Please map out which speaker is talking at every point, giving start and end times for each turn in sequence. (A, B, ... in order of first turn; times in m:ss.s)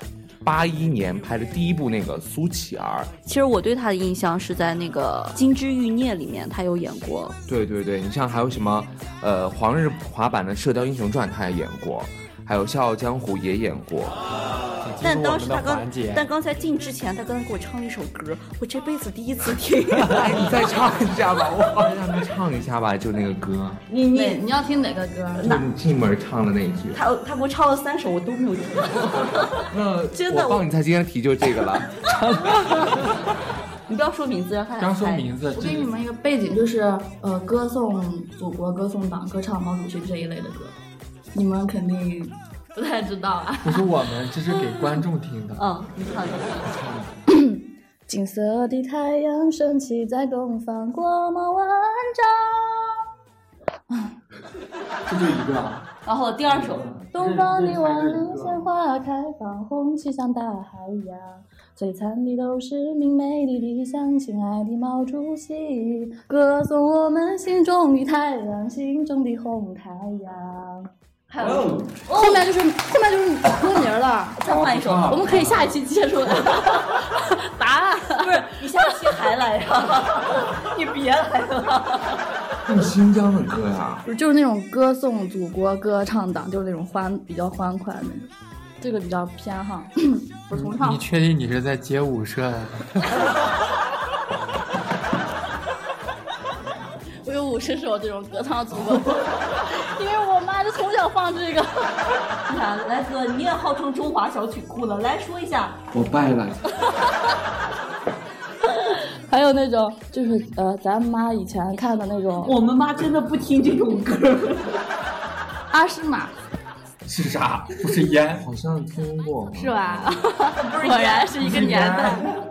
0:00.4-0:03.1 A
0:03.2-0:07.4 B
0:07.5-0:14.2 A
0:14.8-0:16.3 C
0:15.0-0:20.7 B
0:20.0-0:20.3 C
0:20.1-0:23.8 A
0:23.9-0:25.5 D
0:23.9-0:24.4 B
0:25.4-0:25.6 B
0:25.4-0:27.0 A
0:26.9-0:30.6 B
0:29.7-0:32.1 A
0:32.0-0:33.2 C
0:33.9-0:35.3 B
0:34.8-0:35.9 C
0:35.5-0:40.7 D
0:41.3-0:44.0 D
0:43.6-0:45.6 C
0:45.6-0:46.6 B
0:46.6-0:47.1 C
0:47.3-0:53.0 D
0:55.0-0:55.9 C
0:56.0-0:57.0 B
0:56.5-0:58.6 C
0:57.1-1:10.9 D
1:11.3-1:12.5 B
1:11.4-1:11.9 A
1:12.1-1:14.4 D
1:14.4-1:15.3 B
1:14.5-1:15.6 C
1:15.0-1:15.5 A
1:15.1-1:18.6 D
1:16.3-1:17.0 B
1:18.2-1:22.2 B
1:22.6-1:24.0 A
1:24.0-1:28.3 D
1:28.8-1:31.0 D
1:30.5-1:33.3 C
1:37.2-1:42.0 D
1:42.5-1:45.8 B
1:45.9-1:46.6 A
1:49.3-1:52.6 D
1:52.4-1:54.8 B
1:55.7-1:56.3 D
1:57.0-1:58.4 C
1:58.3-2:00.3 A
1:59.5-2:02.3 D
2:00.6-2:02.0 B
2:01.4-2:02.3 A